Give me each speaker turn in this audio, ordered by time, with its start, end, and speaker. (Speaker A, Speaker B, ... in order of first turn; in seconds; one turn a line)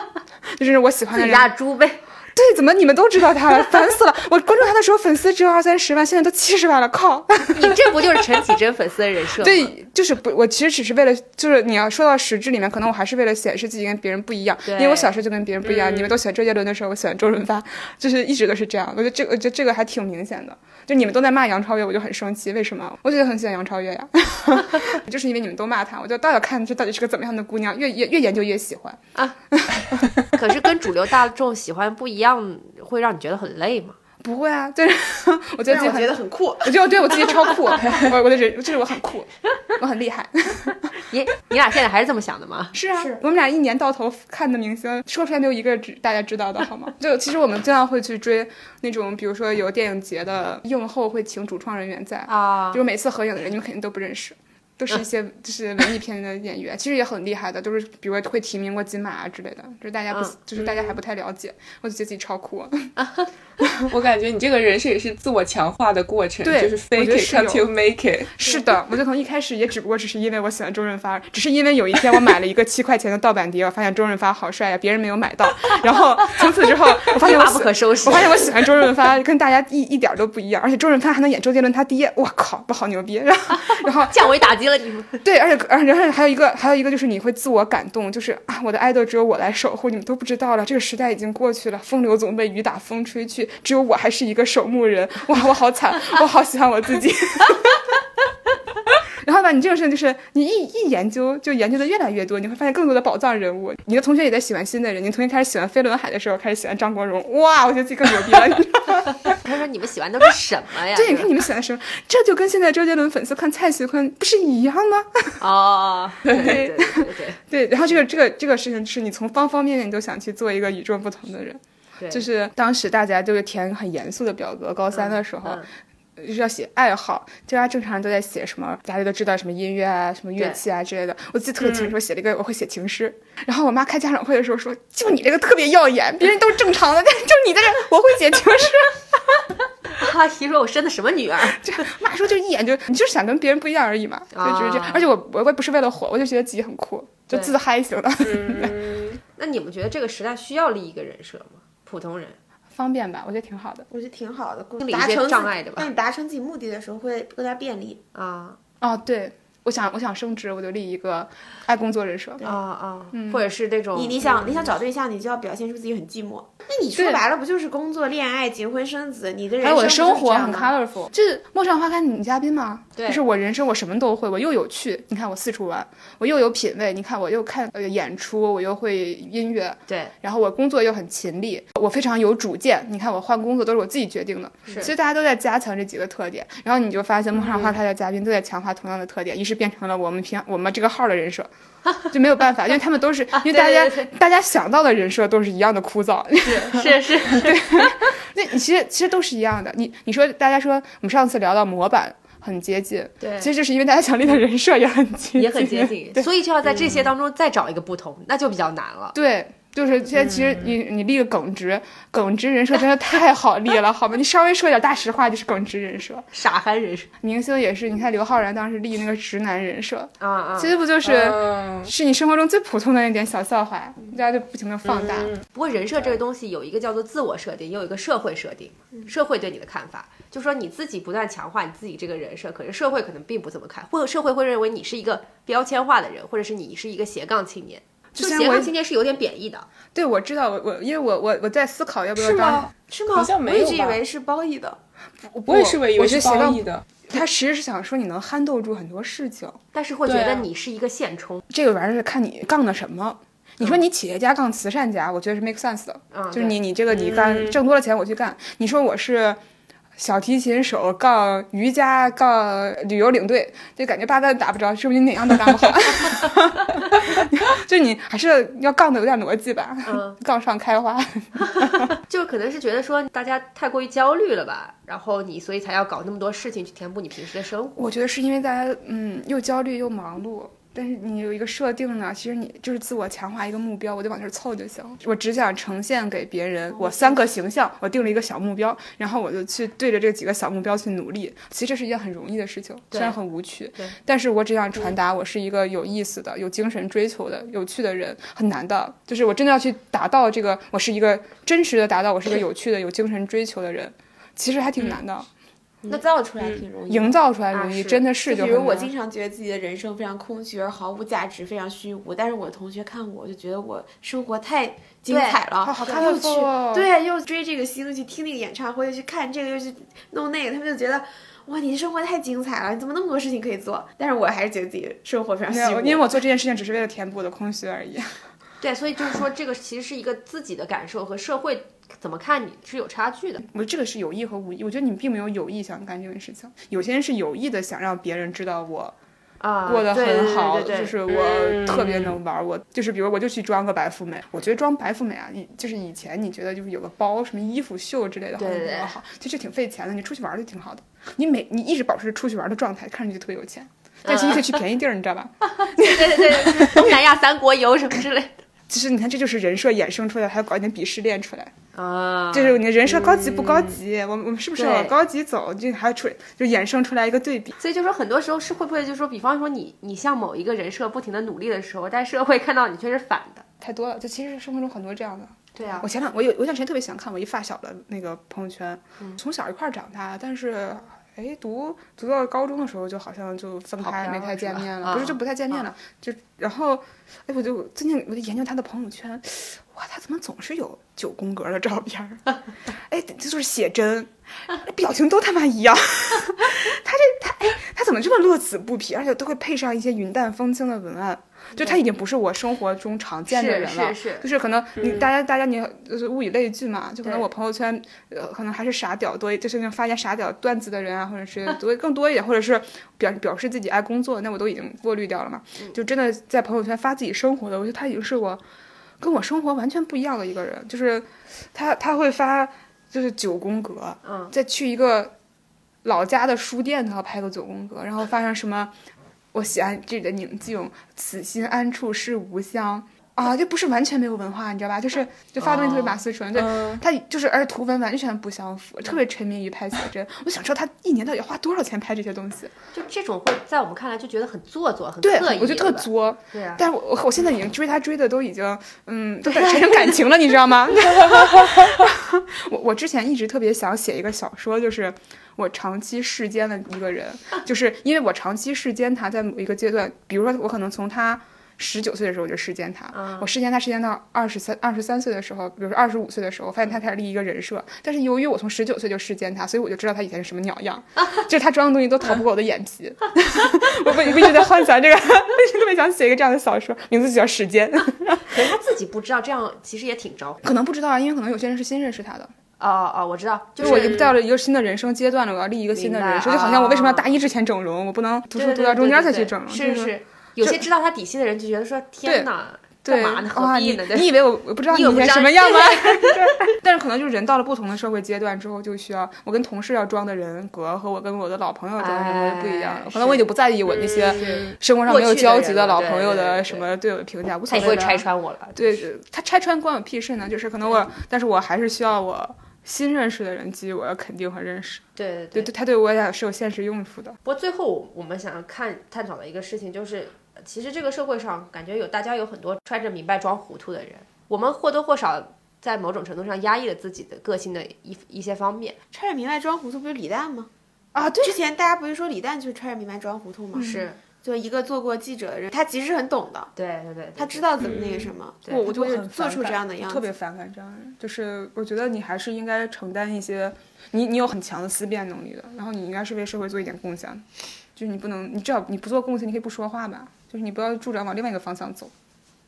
Speaker A: 0.5-1.5
Speaker B: 1.1-2.0
Speaker A: 2.3-8.0
Speaker B: 7.5-9.7
Speaker A: 9.4-29.0
Speaker B: 14.6-15.1
Speaker C: 15.7-16.1
Speaker A: 29.5-30.1
Speaker B: 30.3-34.0
Speaker A: 34.2-40.9
Speaker D: 35.6-37.6
Speaker B: 41.1-42.8
Speaker A: 42.7-62.9
Speaker B: 52.3-52.8
Speaker C: 60.6-61.0
Speaker B: 63.0-63.3
Speaker A: 63.6-63.9
Speaker C: 63.9-68.3
Speaker A: 66.4-67.7
Speaker A: 68.3-84.3
Speaker B: 77.0-78.6
Speaker B: 83.7-85.2
Speaker A: 85.2-98.0
Speaker A: 99.2-109.3
Speaker B: 109.4-111.3
Speaker A: 110.9-115.4
Speaker B: 115.4-117.4
Speaker A: 116.3-125.6
Speaker B: 122.0-122.2
Speaker B: 124.9-125.7
Speaker A: 126.2-139.4
Speaker B: 139.9-141.8
Speaker A: 141.5-148.9
Speaker B: 144.3-145.1
Speaker C: 148.2-149.2
Speaker B: 149.4-152.4
Speaker A: 152.7-153.9
Speaker D: 153.9-158.0
Speaker B: 154.8-155.9
Speaker B: 158.1-158.6
Speaker A: 158.8-162.4
Speaker B: 162.4-164.7
Speaker A: 163.1-163.4
Speaker D: 163.9-170.7
Speaker A: 166.9-167.2
Speaker A: 169.6-191.5
Speaker B: 172.9-173.2
Speaker B: 179.9-180.1
Speaker B: 184.7-184.9
Speaker A: 192.1-206.3
Speaker B: 193.3-194.1
Speaker B: 196.4-198.0
Speaker B: 203.2-203.5
Speaker B: 205.3-209.2
Speaker A: 209.1-216.3
Speaker B: 216.3-217.1
Speaker A: 217.2-225.3
Speaker B: 220.2-220.7
Speaker C: 221.0-221.9
Speaker C: 224.8-225.4
Speaker B: 225.5-239.7
Speaker A: 238.1-238.7
Speaker A: 239.9-242.7
Speaker C: 242.2-244.0
Speaker D: 242.9-244.8
Speaker A: 245.2-249.6
Speaker C: 245.5-246.8
Speaker B: 249.7-251.4
Speaker C: 250.1-250.4
Speaker A: 251.5-259.4
Speaker B: 256.1-256.6
Speaker C: 256.9-257.6
Speaker A: 260.0-271.9
Speaker B: 269.8-270.2
Speaker B: 271.4-277.8
Speaker A: 277.8-305.3
Speaker D: 305.8-307.2
Speaker A: 306.9-308.9
Speaker B: 307.5-308.1
Speaker D: 308.2-326.1
Speaker B: 315.1-316.1
Speaker A: 315.6-316.9
Speaker A: 325.5-328.1
Speaker B: 328.6-333.4
Speaker A: 333.5-338.9
Speaker B: 339.4-340.9
Speaker A: 339.6-357.0
Speaker C: 341.1-342.1
Speaker B: 348.4-348.9
Speaker B: 354.0-354.6
Speaker B: 355.6-358.4
Speaker A: 358.7-361.5
Speaker B: 361.7-362.6
Speaker A: 362.3-367.5
Speaker C: 363.1-363.7
Speaker B: 364.6-364.9
Speaker B: 367.6-373.4
Speaker A: 373.6-392.2
Speaker B: 375.5-375.9
Speaker B: 383.8-385.6
Speaker A: 392.9-418.4
Speaker B: 401.6-401.8
Speaker B: 403.3-404.3
Speaker A: 419.0-425.1
Speaker B: 424.0-424.3
Speaker A: 425.8-428.7
Speaker A: 429.3-442.5
Speaker B: 435.4-436.0
Speaker C: 436.4-436.8
Speaker B: 442.7-446.6
Speaker A: 445.0-478.4
Speaker B: 449.3-449.9
Speaker B: 462.9-463.3
Speaker B: 478.2-480.4
Speaker A: 480.4-482.3
Speaker B: 482.6-484.0
Speaker A: 483.6-490.6
Speaker C: 483.6-484.1
Speaker B: 485.7-487.1
Speaker B: 488.3-496.4
Speaker A: 492.8-517.2
Speaker B: 501.8-503.3
Speaker C: 503.8-504.5
Speaker B: 504.1-506.7
Speaker B: 507.5-508.9
Speaker B: 515.0-515.5
Speaker B: 517.2-528.8
Speaker D: 528.9-530.5
Speaker A: 530.9-531.4
Speaker D: 531.2-536.5
Speaker A: 533.5-533.8
Speaker B: 533.6-534.0
Speaker B: 536.5-537.5
Speaker D: 537.1-540.0
Speaker C: 537.6-537.9
Speaker A: 538.5-547.2
Speaker A: 547.8-551.9